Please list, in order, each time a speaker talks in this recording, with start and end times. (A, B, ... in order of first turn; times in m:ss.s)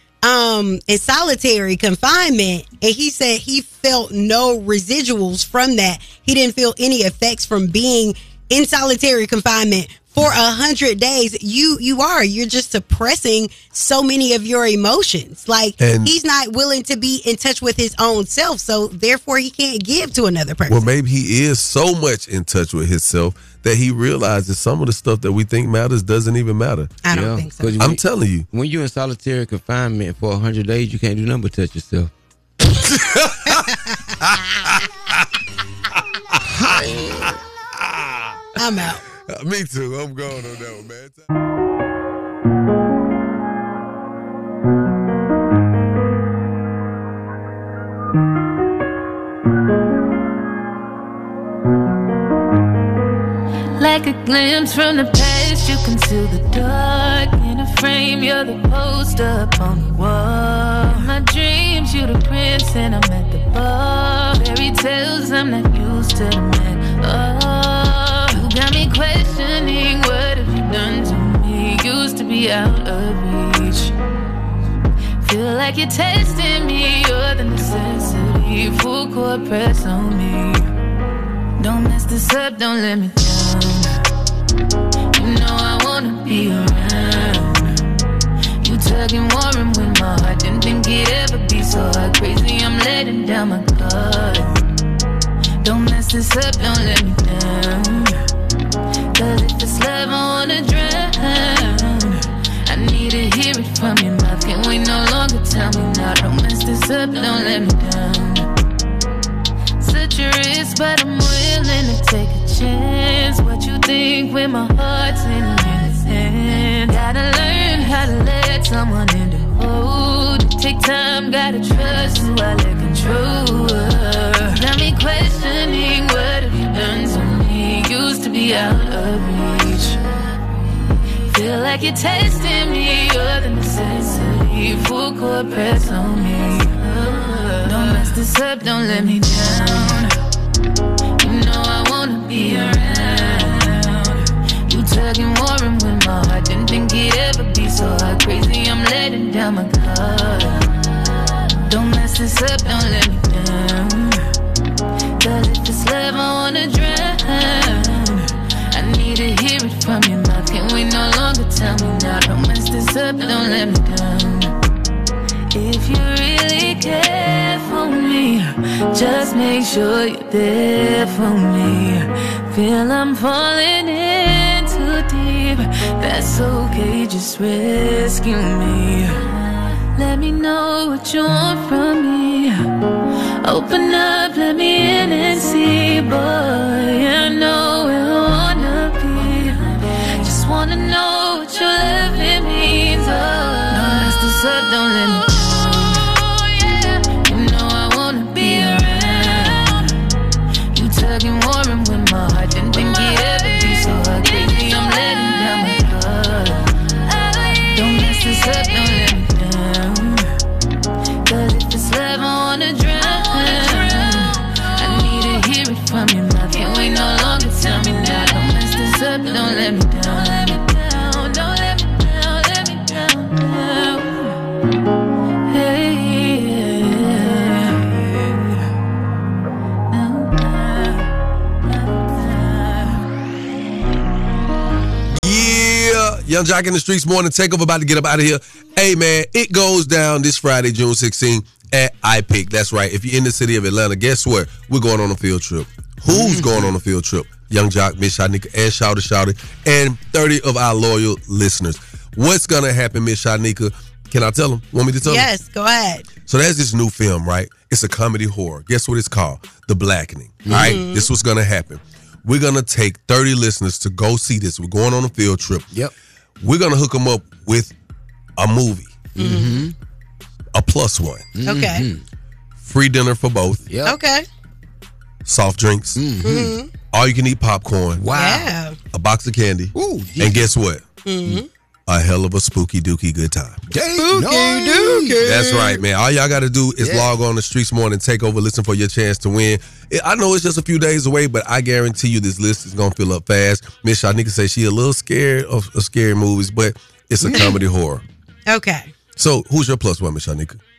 0:00.2-0:20.9 A
0:15.8-0:16.1 B
0:20.7-0:26.9 B
0:27.0-0:27.9 A
0:27.1-0:32.1 C
0:27.8-0:28.4 B
0:32.8-0:33.6 B
0:34.2-0:35.2 B
0:36.4-0:38.4 B
0:38.6-0:39.0 A
0:39.3-0:41.3 B
0:53.8-1:13.9 D
1:15.2-1:20.7 D
1:21.6-1:24.0 D
1:25.1-1:27.8 D
1:28.6-1:34.6 D
1:35.6-1:38.2 D
1:39.1-1:48.5 D
1:49.8-2:10.0 D
2:11.3-2:20.1 D
2:21.2-2:30.6 D
2:31.6-2:34.3 D
2:35.2-2:44.5 D
2:45.5-2:59.3 D
2:59.9-3:02.6 D
3:03.4-3:20.0 D
3:20.7-3:30.4 D
3:31.2-3:44.4 D
3:45.5-3:48.7 D
3:49.9-3:51.1 D
3:51.7-3:53.0 D
3:55.2-4:15.3 B
4:06.1-4:06.7 C
4:15.0-4:16.1 A
4:16.2-4:25.7 B
4:20.4-4:20.8 C
4:20.5-4:21.1 A
4:26.4-4:27.7 B
4:28.4-4:29.1 B
4:29.1-4:29.7 C
4:29.2-4:29.6 A
4:30.5-4:31.3 B
4:31.3-4:32.0 C
4:31.4-4:31.8 A
4:32.6-4:33.6 B
4:33.6-4:34.0 C
4:33.8-4:34.2 A
4:35.2-4:36.0 B
4:36.0-4:36.6 C
4:36.2-4:36.7 A
4:36.9-4:38.1 B
4:37.9-4:38.5 C
4:38.1-4:38.8 A
4:38.9-4:40.8 B
4:39.7-4:40.5 C
4:41.0-4:41.5 A
4:41.9-4:43.6 B
4:43.7-4:45.2 C
4:43.9-4:45.8 A
4:45.2-4:58.0 B
4:46.8-4:47.1 C
4:57.2-4:57.6 A
4:58.5-4:58.9 A
4:59.2-5:00.6 B